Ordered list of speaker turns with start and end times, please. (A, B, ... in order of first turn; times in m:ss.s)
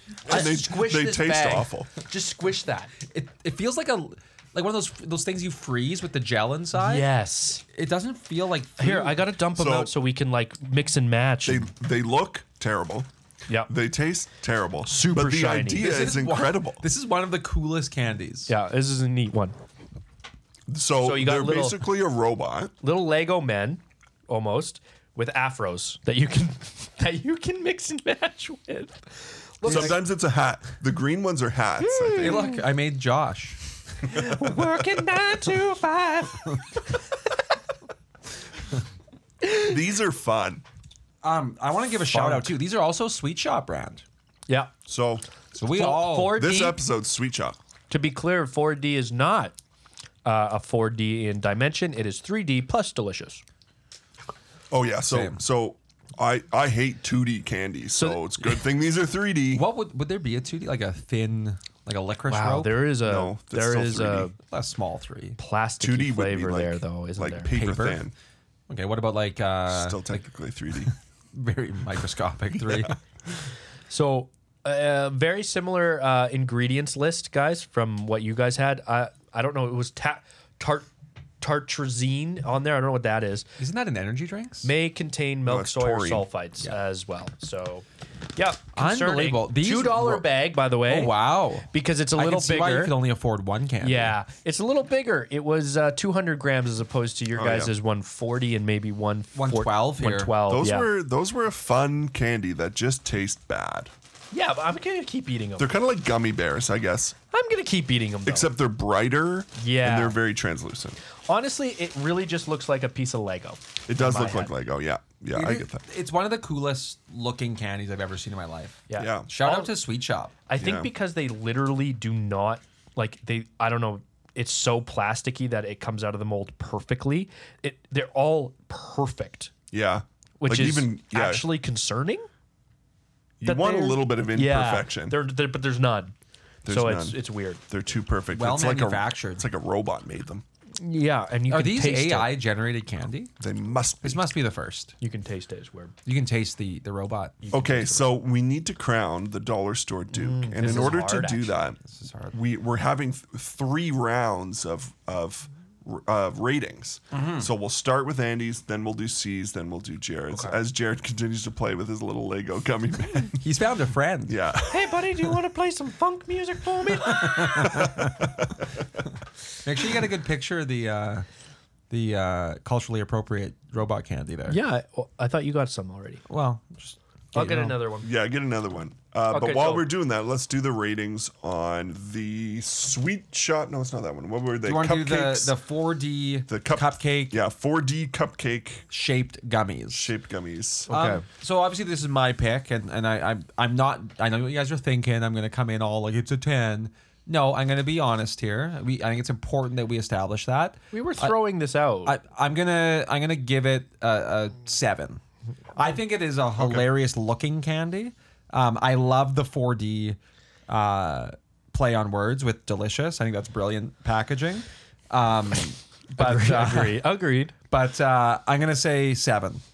0:00.2-0:02.9 A
0:00.3-0:01.9 B
0:03.1-0:07.0 C
0:06.7-0:07.6 A
0:07.7-0:09.2 C
0:08.8-0:11.7 A
0:09.5-0:09.9 B
0:11.4-0:13.1 B
0:13.7-0:16.8 B
0:14.8-0:16.0 A
0:15.8-0:18.5 C
0:18.5-0:19.5 A
0:20.7-0:22.7 B
0:21.0-0:21.8 A
0:22.8-0:30.0 A
0:29.6-0:32.5 B
0:29.6-0:29.9 C
0:31.8-0:32.6 A
0:32.2-0:33.6 C
0:34.0-0:37.0 A
0:39.6-0:40.6 B
0:41.2-0:44.0 C
0:42.1-0:42.5 A
0:44.9-0:45.2 B
0:45.5-0:46.4 C
0:45.7-0:46.8 A
0:46.3-0:47.6 B
0:47.9-0:49.5 A
0:50.2-0:53.4 A
0:54.7-0:59.6 B
0:55.0-0:55.4 C
0:58.0-0:58.4 A
0:59.5-1:02.8 C
1:02.3-1:04.4 A
1:03.0-1:04.3 B
1:04.5-1:05.4 C
1:05.4-1:07.5 A
1:05.8-1:08.1 B
1:07.5-1:08.0 C
1:08.7-1:10.2 C
1:09.7-1:10.9 B
1:11.3-1:13.0 C
1:12.6-1:12.9 B
1:13.9-1:20.9 A
1:21.4-1:23.5 A
1:23.6-1:24.7 C
1:24.6-1:27.8 A
1:25.4-1:26.2 B
1:28.4-1:31.2 A
1:28.7-1:30.3 C
1:30.8-1:34.1 C
1:31.7-1:32.9 A
1:33.8-1:40.9 A
1:37.3-1:37.7 B
1:39.3-1:40.3 C
1:40.5-1:43.9 B
1:44.3-1:45.7 A
1:45.6-1:47.2 B
1:47.3-1:48.5 A
1:48.2-1:51.0 B
1:49.6-1:50.2 A
1:51.3-1:54.5 A
1:53.9-1:55.8 B
1:55.3-2:00.3 C
1:58.9-1:59.7 A
1:59.0-1:59.3 B
2:00.5-2:09.5 A
2:00.6-2:00.9 B
2:09.7-2:11.4 B
2:10.4-2:12.3 A
2:13.4-2:15.2 B
2:13.4-2:16.1 A
2:16.6-2:17.2 B
2:16.7-2:17.6 A
2:17.7-2:20.4 B
2:18.3-2:19.4 C
2:20.8-2:22.3 A
2:21.5-2:23.3 C
2:23.4-2:24.2 B
2:24.0-2:24.9 C
2:25.0-2:25.9 A
2:26.0-2:27.5 C
2:27.4-2:28.1 A
2:27.5-2:31.8 B
2:30.1-2:31.6 A
2:31.8-2:32.4 C
2:32.3-2:43.4 B
2:37.1-2:37.5 C
2:40.3-2:40.6 A
2:43.3-2:44.4 C
2:44.2-2:45.3 B
2:44.7-2:48.0 A
2:47.1-2:48.1 C
2:47.6-2:48.4 B
2:49.6-2:51.2 C
2:51.9-2:54.6 C
2:54.5-2:56.2 A
2:56.3-2:57.8 C
2:57.3-2:58.1 A
2:58.0-3:05.5 B
2:59.3-2:59.9 A
3:04.6-3:07.4 C
3:06.5-3:08.8 B
3:08.9-3:10.1 C
3:09.9-3:10.9 B
3:10.9-3:11.2 A
3:10.9-3:21.4 C
3:20.9-3:22.1 A
3:22.0-3:25.2 C
3:25.8-3:37.0 C
3:26.6-3:26.8 B
3:36.2-3:37.5 A
3:37.7-3:39.6 C